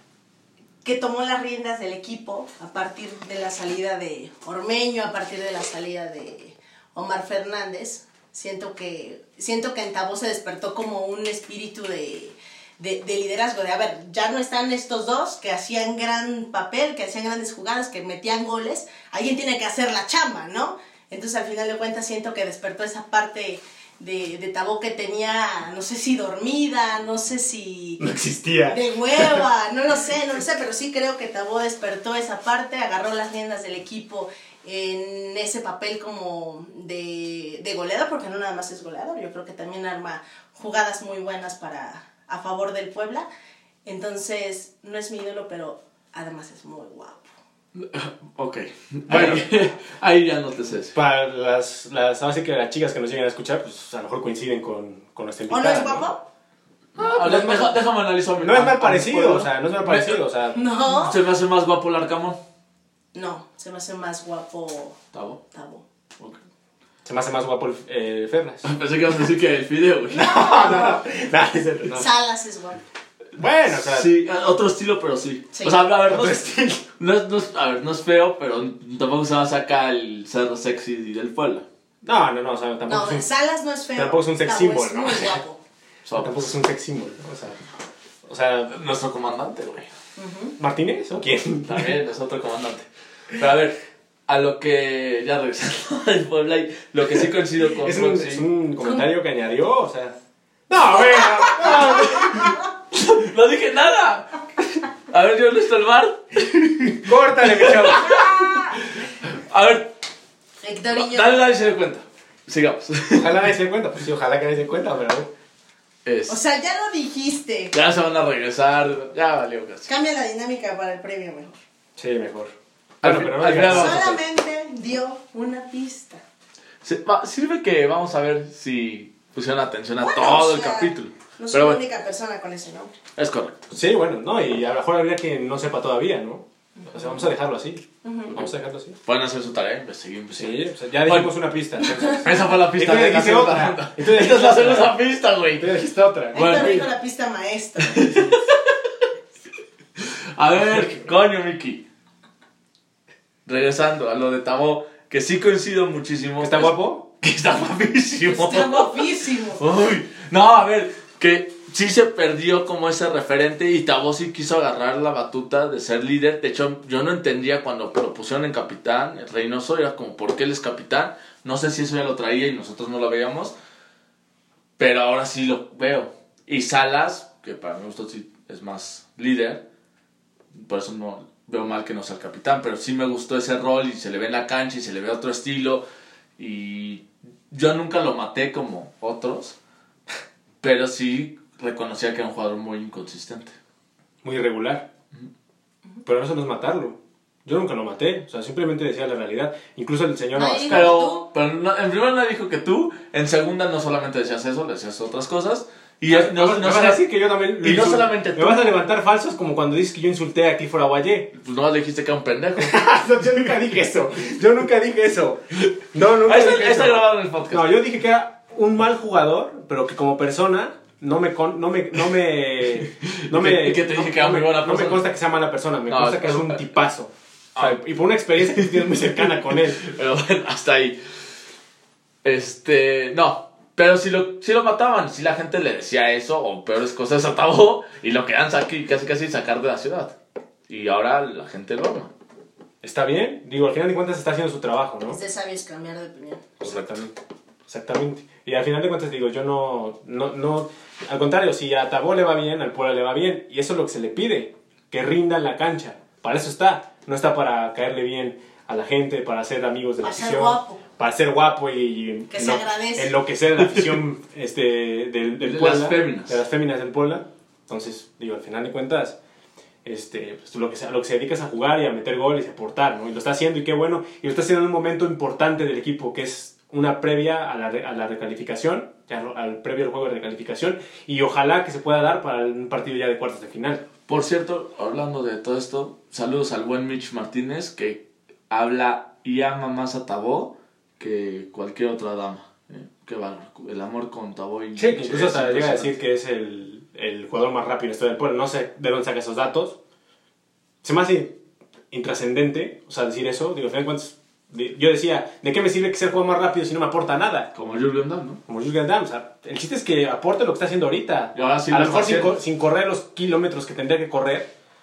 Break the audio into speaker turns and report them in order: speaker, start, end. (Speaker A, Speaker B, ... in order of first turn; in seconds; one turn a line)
Speaker A: 0.8-28.1
Speaker B: 28.0-29.4
Speaker A: 28.6-43.3
Speaker A: 43.9-47.3
Speaker C: 47.8-51.0
Speaker B: 49.1-49.5
Speaker B: 51.0-56.1
Speaker A: 55.5-56.2
Speaker C: 57.0-60.2
Speaker B: 57.0-57.8
Speaker B: 58.4-60.6
Speaker A: 60.5-61.2
Speaker C: 60.9-62.4
Speaker A: 63.1-65.0
Speaker C: 65.1-65.4
Speaker A: 65.5-65.8
Speaker B: 67.0-68.7
Speaker C: 68.6-70.4
Speaker A: 70.1-71.0
Speaker B: 70.2-72.0
Speaker A: 71.9-72.8
Speaker B: 73.4-74.1
Speaker C: 73.6-76.5
Speaker A: 75.5-75.8
Speaker B: 76.1-76.9
Speaker C: 77.0-81.7
Speaker B: 82.0-83.2
Speaker A: 82.9-85.6
Speaker B: 84.0-85.4
Speaker C: 86.0-86.5
Speaker B: 86.2-87.6
Speaker B: 88.2-88.7
Speaker C: 88.7-89.9
Speaker A: 90.2-90.6
Speaker B: 90.6-92.0
Speaker C: 91.7-98.5
Speaker B: 97.7-100.2
Speaker A: 98.8-99.1
Speaker B: 100.7-102.5
Speaker A: 101.2-102.4
Speaker C: 101.7-104.4
Speaker C: 105.1-109.9
Speaker B: 107.0-108.2
Speaker A: 108.0-108.8
Speaker A: 110.6-111.4
Speaker C: 110.9-113.3
Speaker B: 113.1-115.3
Speaker C: 116.0-116.4
Speaker A: 116.3-117.7
Speaker C: 117.7-119.9
Speaker A: 119.9-121.6
Speaker B: 122.0-124.2
Speaker C: 123.0-124.1
Speaker A: 123.6-126.2
Speaker C: 126.8-131.8
Speaker A: 130.0-132.9
Speaker C: 133.2-133.6
Speaker B: 133.7-139.0
Speaker A: 138.0-138.4
Speaker C: 139.1-141.3
Speaker B: 140.3-145.0
Speaker C: 142.0-145.8
Speaker B: 145.6-146.7
Speaker C: 146.3-146.9
Speaker A: 146.3-148.1
Speaker C: 147.8-148.8
Speaker C: 150.0-151.8
Speaker B: 150.7-150.9
Speaker C: 153.5-173.6
Speaker B: 156.4-157.0
Speaker A: 158.3-159.6
Speaker C: 174.8-179.7
Speaker C: 180.5-185.8
Speaker C: 186.4-189.6
Speaker C: 190.6-193.6
Speaker B: 194.2-194.9
Speaker B: 196.1-201.0
Speaker A: 200.3-201.3
Speaker C: 200.7-207.0
Speaker B: 206.1-211.3
Speaker C: 207.6-208.8
Speaker C: 211.3-212.8
Speaker B: 212.6-229.8
Speaker C: 215.6-217.7
Speaker C: 222.9-225.1
Speaker C: 225.9-226.6
Speaker C: 227.6-227.8
Speaker C: 228.4-231.0
Speaker C: 232.2-240.2
Speaker C: 240.7-242.1
Speaker B: 242.8-245.2
Speaker A: 245.1-246.5
Speaker B: 246.6-247.1
Speaker C: 246.7-246.9
Speaker B: 247.7-269.2
Speaker A: 260.0-260.8
Speaker A: 262.3-263.1
Speaker C: 263.6-264.0
Speaker C: 265.4-266.4
Speaker B: 269.9-283.9
Speaker C: 284.1-296.0
Speaker B: 294.8-299.8
Speaker B: 300.8-301.4
Speaker B: 301.9-307.5
Speaker C: 307.6-308.4
Speaker B: 308.5-314.5
Speaker C: 311.3-312.4